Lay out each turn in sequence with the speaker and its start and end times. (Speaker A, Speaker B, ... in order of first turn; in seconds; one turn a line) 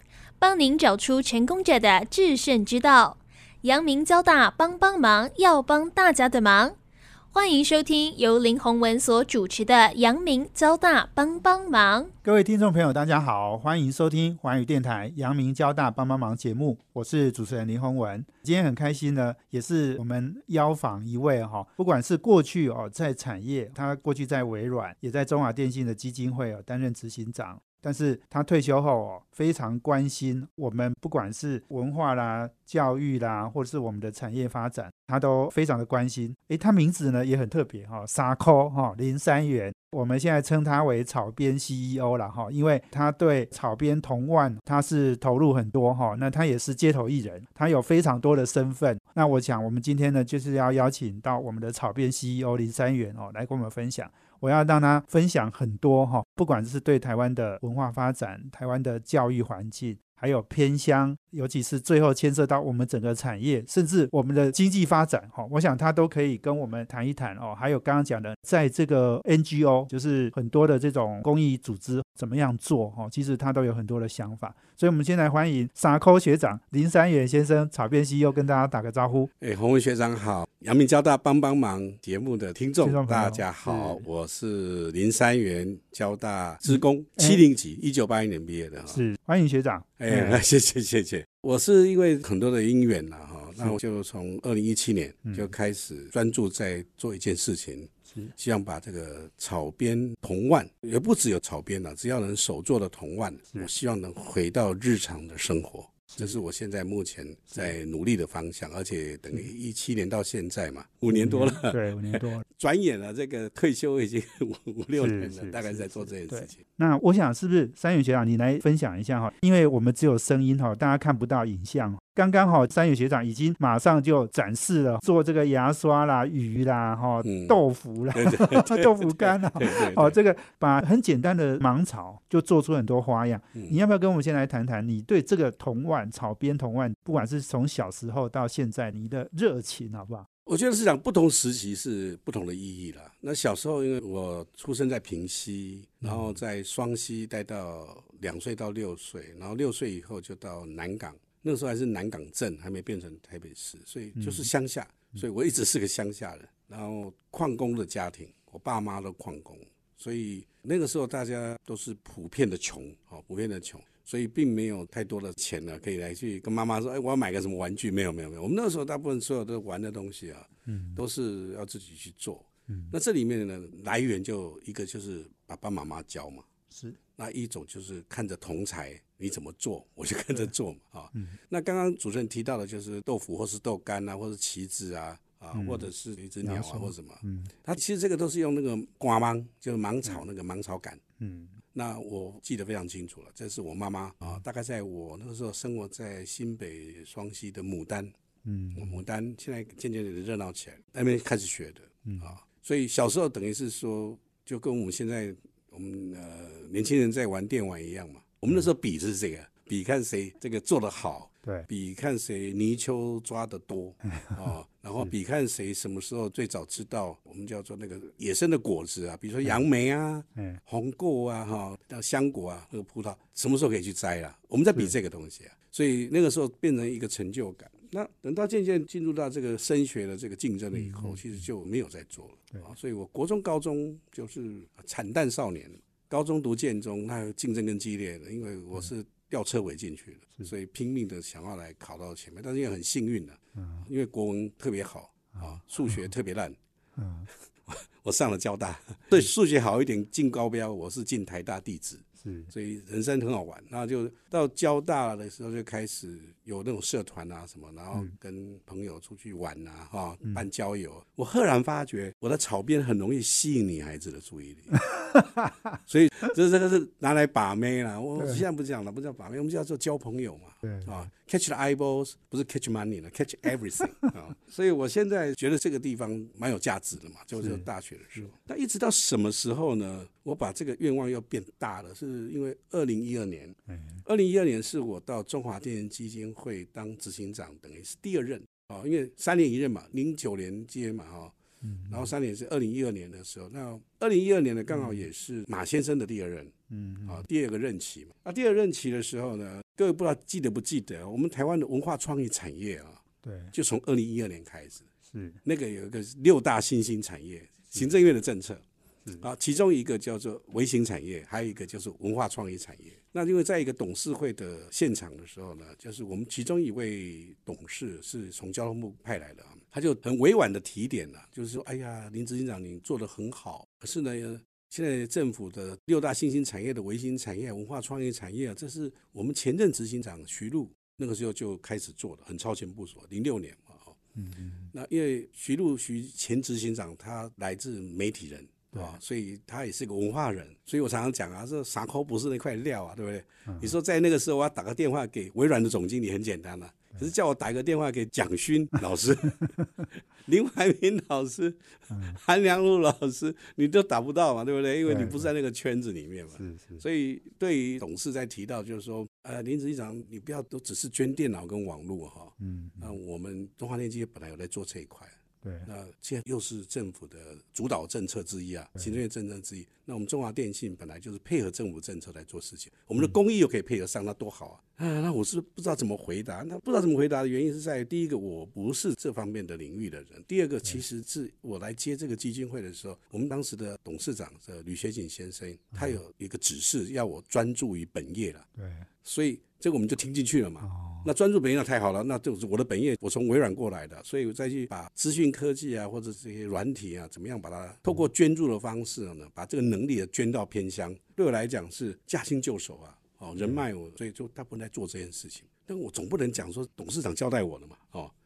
Speaker A: 0.4-6.7
Speaker A: 7.3-12.1
Speaker B: 12.2-79.3
Speaker C: 79.4-89.0
Speaker B: 82.8-84.0
Speaker B: 86.7-87.4
Speaker B: 88.9-90.4
Speaker C: 90.0-116.6
Speaker B: 106.1-106.4
Speaker B: 111.1-112.4
Speaker B: 115.0-140.3
Speaker C: 127.2-127.6
Speaker C: 128.1-130.2
Speaker C: 140.5-176.5
Speaker B: 146.0-146.3
Speaker B: 154.2-154.5
Speaker B: 170.7-171.0
Speaker B: 176.7-177.0
Speaker C: 177.2-191.0
Speaker B: 185.5-185.9
Speaker B: 186.4-187.5
Speaker B: 191.2-191.6
Speaker C: 191.7-198.1
Speaker B: 198.4-198.9
Speaker C: 198.8-246.6
Speaker B: 202.1-202.3
Speaker B: 214.1-214.4
Speaker B: 220.4-220.6
Speaker B: 230.8-231.2
Speaker B: 243.6-243.9
Speaker B: 245.3-245.6
Speaker B: 247.0-247.3
Speaker C: 247.7-264.8
Speaker B: 252.2-252.5
Speaker B: 264.9-265.6
Speaker C: 265.9-291.3
Speaker B: 268.2-268.4
Speaker B: 270.6-270.9
Speaker B: 277.4-277.6
Speaker B: 283.7-284.0
Speaker B: 291.6-292.1
Speaker C: 291.9-296.5
Speaker B: 294.7-295.0
Speaker B: 296.7-297.2
Speaker C: 297.1-303.0
Speaker B: 303.2-303.5
Speaker C: 303.5-304.9
Speaker B: 305.1-305.4
Speaker C: 305.4-308.6
Speaker C: 309.2-334.0
Speaker B: 334.1-334.7
Speaker C: 334.7-349.5
Speaker B: 343.4-343.7
Speaker C: 350.2-365.1
Speaker B: 351.9-352.2
Speaker B: 354.9-355.3
Speaker B: 356.4-356.8
Speaker B: 362.4-362.9
Speaker B: 365.4-365.7
Speaker C: 365.7-388.4
Speaker B: 388.6-388.9
Speaker C: 389.0-408.1
Speaker B: 390.6-391.1